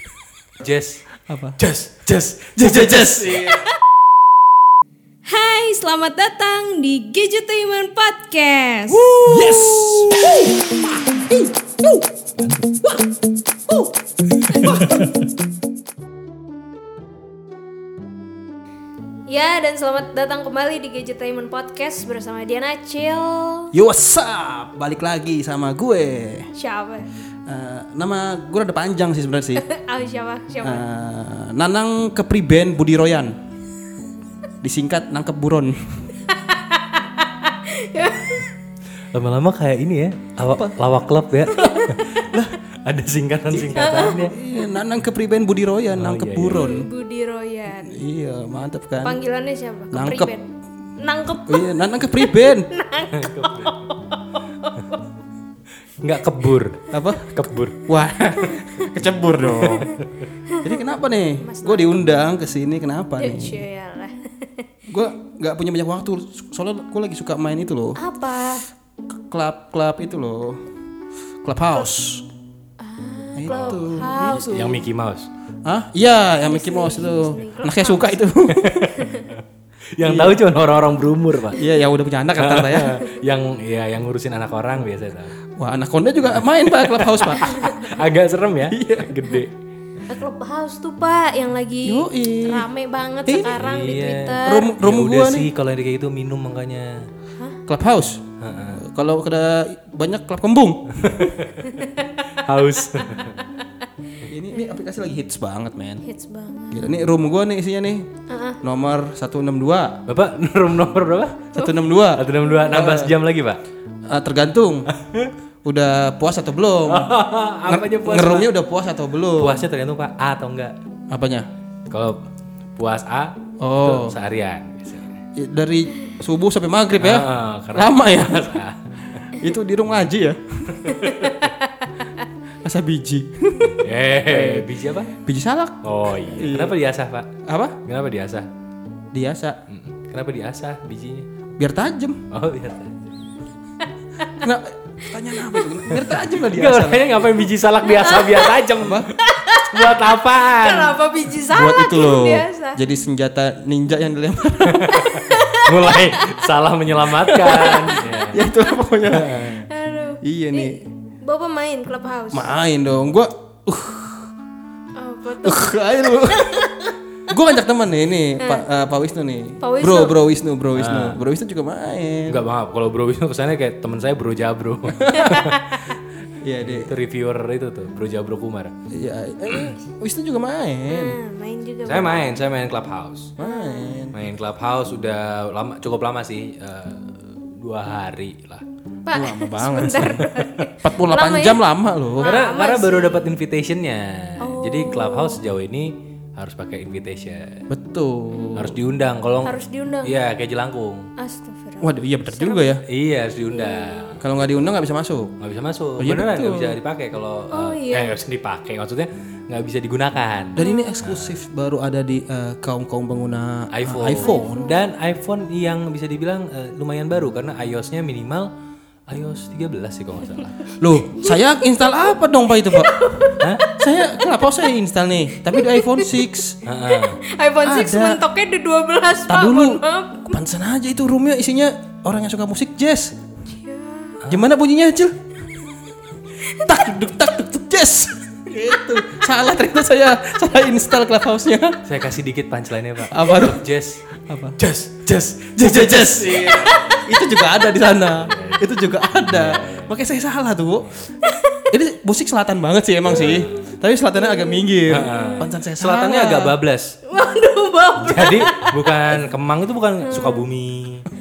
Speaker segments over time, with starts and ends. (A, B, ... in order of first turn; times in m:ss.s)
0:00.6-0:01.0 A
0:01.3-0:01.6 B
0:01.6-0:03.7 A
0:02.6-0:03.7 B
0:05.3-0:09.1 C
0:09.0-0:10.3 A
0:09.1-0:11.9 B
0:12.4-0:12.8 A
0:14.4-0:15.2 A
0:14.5-0:15.0 B
0:19.3-0:23.7 C
0:23.7-0:26.5 B
0:26.5-0:27.1 C
0:27.5-0:29.7 B
0:29.6-0:30.9 C
0:30.6-0:33.4 B
0:34.6-0:36.1 B
0:36.3-0:38.5 C
0:39.1-0:44.4 A
0:40.5-0:40.8 B
0:41.5-0:42.4 C
0:43.7-0:44.4 C
0:44.1-0:46.9 B
0:46.0-0:46.7 A
0:46.5-0:48.0 C
0:47.8-0:49.2 B
0:49.0-0:50.5 C
0:49.9-0:50.4 B
0:51.0-0:55.0 C
0:51.5-0:52.7 B
0:53.1-0:53.9 A
0:56.0-0:57.8 A
0:56.9-1:00.0 B
0:59.4-1:00.3 A
1:00.6-1:03.6 B
1:01.4-1:02.1 C
1:03.2-1:04.7 C
1:04.9-1:08.0 B
1:08.0-1:08.7 C
1:09.2-1:10.6 B
1:11.4-1:12.3 B
1:12.8-1:14.8 C
1:13.4-1:14.8 B
1:13.5-1:13.8 A
1:14.4-1:15.3 A
1:15.6-1:18.9 B
1:16.4-1:18.2 C
1:18.5-1:21.6 A
1:19.0-1:19.3 C
1:20.0-1:20.4 B
1:21.5-1:23.0 B
1:22.3-1:25.3 A
1:25.6-1:28.0 B
1:26.7-1:29.5 A
1:28.7-1:29.2 B
1:30.1-1:34.7 C
1:31.8-1:32.7 B
1:33.3-1:33.6 B
1:33.5-1:37.1 A
1:34.4-1:35.5 B
1:37.7-1:38.2 B
1:38.4-1:38.8 A
1:38.7-1:41.5 B
1:40.9-1:43.5 A
1:41.7-1:42.0 C
1:44.2-1:46.0 B
1:46.0-1:46.9 C
1:46.7-1:48.1 B
1:48.3-1:48.6 C
1:48.6-1:50.0 B
1:50.1-1:51.5 A
1:51.5-1:53.1 B
1:52.2-1:53.6 A
1:54.0-1:54.9 B
1:54.9-1:55.3 A
1:55.6-1:57.2 B
1:56.8-1:58.5 A
1:57.7-1:59.6 B
1:59.4-2:00.8 A
2:01.1-2:01.5 B
2:01.9-2:02.2 A
2:02.8-2:05.1 A
2:03.6-2:04.2 B
2:05.4-2:08.6 B
2:07.0-2:09.3 A
2:09.3-2:11.1 B
2:10.7-2:11.5 A
2:11.0-2:11.9 C
2:12.6-2:16.8 B
2:13.6-2:15.2 A
2:15.8-2:17.3 A
2:17.4-2:17.8 B
2:17.8-2:18.5 A
2:19.1-2:19.6 B
2:19.7-2:21.3 A
2:21.6-2:22.2 B
2:22.3-2:23.3 A
2:24.4-2:27.3 B
2:25.9-2:31.0 A
2:27.8-2:28.6 C
2:28.8-2:29.1 B
2:29.2-2:32.8 C
2:31.5-2:35.2 B
2:34.6-2:38.4 A
2:35.1-2:36.2 C
2:37.3-2:38.7 C
2:37.6-2:39.6 B
2:39.1-2:39.7 A
2:39.7-2:42.5 C
2:40.2-2:40.8 B
2:42.3-2:44.3 B
2:45.0-2:46.9 C
2:45.4-2:46.7 B
2:47.3-2:52.4 B
2:48.4-2:48.7 C
2:49.6-2:50.2 C
2:50.8-2:51.2 A
2:52.3-2:55.9 A
2:54.9-2:55.5 B
2:56.4-2:56.9 B
2:56.6-2:58.7 A
2:58.9-3:01.2 B
3:00.9-3:02.4 C
3:01.8-3:03.3 A
3:03.4-3:04.2 B
3:03.4-3:04.1 C
3:04.1-3:08.6 A
3:09.1-3:13.4 C
3:09.1-3:12.3 B
3:12.2-3:17.7 A
3:14.4-3:15.4 C
3:17.7-3:18.8 B
3:18.3-3:18.7 C
3:18.6-3:21.1 A
3:19.4-3:20.2 C
3:21.2-3:22.8 C
3:21.8-3:22.8 B
3:22.9-3:24.2 A
3:23.5-3:24.1 C
3:24.2-3:25.3 B
3:25.4-3:31.4 A
3:26.0-3:26.8 B
3:27.5-3:28.2 C
3:30.6-3:34.7 B
3:30.6-3:31.1 C
3:33.7-3:38.5 A
3:34.1-3:34.8 C
3:39.1-3:40.6 A
3:40.8-3:43.0 B
3:41.2-3:41.4 C
3:42.7-3:44.7 C
3:43.4-3:43.6 A
3:43.7-3:46.6 B
3:45.4-3:46.3 C
3:46.6-3:47.2 A
3:46.9-3:50.4 C
3:47.6-3:48.2 B
3:49.3-3:53.2 B
3:53.5-3:54.2 C
3:54.3-3:55.2 B
3:56.4-4:01.8 B
4:01.8-4:04.1 A
4:03.1-4:04.6 B
4:04.6-4:07.0 A
4:05.6-4:11.0 B
4:08.2-4:08.7 A
4:09.3-4:10.0 A
4:10.8-4:11.1 A
4:11.2-4:11.7 C
4:11.7-4:16.6 B
4:13.1-4:13.6 A
4:13.2-4:13.5 C
4:14.2-4:15.5 C
4:14.9-4:17.0 A
4:17.1-4:19.0 C
4:18.0-4:21.1 A
4:20.0-4:20.5 C